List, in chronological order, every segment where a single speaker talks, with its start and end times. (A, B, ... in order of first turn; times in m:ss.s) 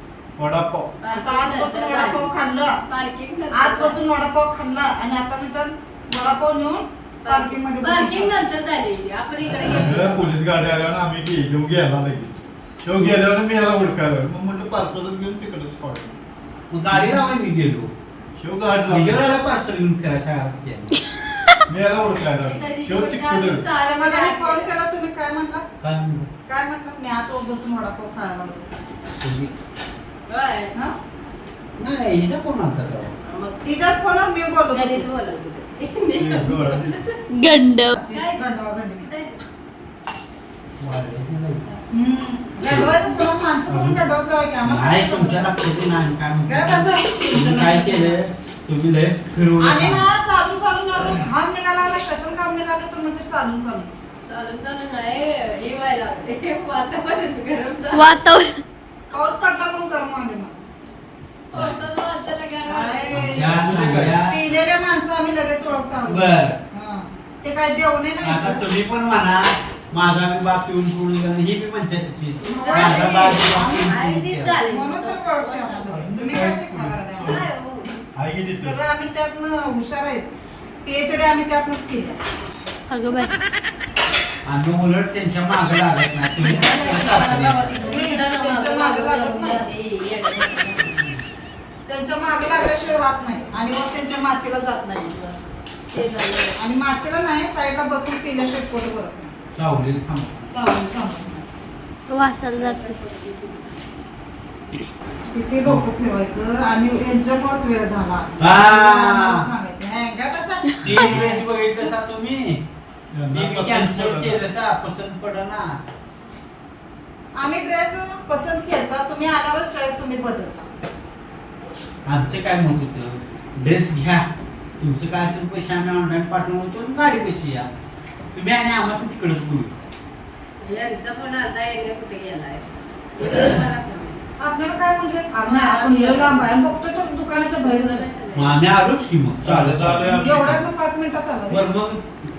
0:00.4-0:00.9 A
0:01.0-0:02.3 B
0:01.1-0:02.8 C
0:02.9-0:04.0 B
0:03.5-0:08.5 C
0:07.2-0:10.3 B
0:09.5-0:16.2 A
0:16.7-0:17.9 D
0:16.9-0:17.2 A
0:18.4-0:19.3 A
0:18.9-0:21.0 D
0:21.7-0:23.7 A
0:22.4-0:24.8 B
0:23.8-0:25.7 C
0:25.8-0:26.3 D
0:26.5-0:28.7 C
0:29.2-0:29.5 D
0:30.3-0:30.7 B
0:31.8-0:33.2 D
0:33.2-0:33.7 B
0:33.6-0:35.1 C
0:34.7-0:37.2 B
0:36.2-0:37.0 A
0:37.4-0:38.0 E
0:37.9-0:39.4 B
0:38.0-0:39.1 C
0:40.8-0:41.8 D
0:41.9-0:45.5 C
0:42.7-0:43.0 D
0:43.7-0:44.0 A
0:44.6-0:50.1 D
0:46.5-0:48.2 C
0:49.6-0:53.9 C
0:54.3-0:58.1 B
0:57.9-0:58.6 E
0:59.1-1:00.6 C
1:01.5-1:03.4 B
1:01.5-1:01.8 D
1:02.7-1:08.6 C
1:03.1-1:04.4 D
1:03.6-1:04.2 A
1:06.1-1:06.6 D
1:08.2-1:14.7 D
1:12.4-1:13.3 B
1:12.5-1:14.0 C
1:13.9-1:16.4 B
1:14.6-1:17.5 C
1:15.9-1:17.5 A
1:17.2-1:18.0 B
1:18.2-1:18.8 A
1:18.6-1:20.3 C
1:20.8-1:22.2 C
1:22.9-1:23.4 E
1:24.4-1:28.0 D
1:26.4-1:31.0 B
1:27.8-1:29.7 C
1:31.9-1:35.4 C
1:35.9-1:36.6 B
1:36.6-1:39.3 C
1:39.5-1:40.5 D
1:40.5-1:41.4 C
1:42.1-1:43.0 E
1:42.5-1:43.8 B
1:45.3-1:51.4 C
1:48.4-1:49.5 D
1:50.8-1:52.6 D
1:50.9-1:51.2 A
1:53.1-1:54.4 A
1:53.3-1:55.8 D
1:57.4-2:00.7 C
2:02.1-2:04.3 D
2:04.8-2:07.7 D
2:08.4-2:09.9 D
2:10.6-2:14.2 B
2:14.4-2:18.0 C
2:15.4-2:16.5 B
2:17.6-2:18.6 B
2:18.3-2:20.1 D
2:19.4-2:20.6 A
2:20.1-2:21.7 C
2:21.5-2:22.0 D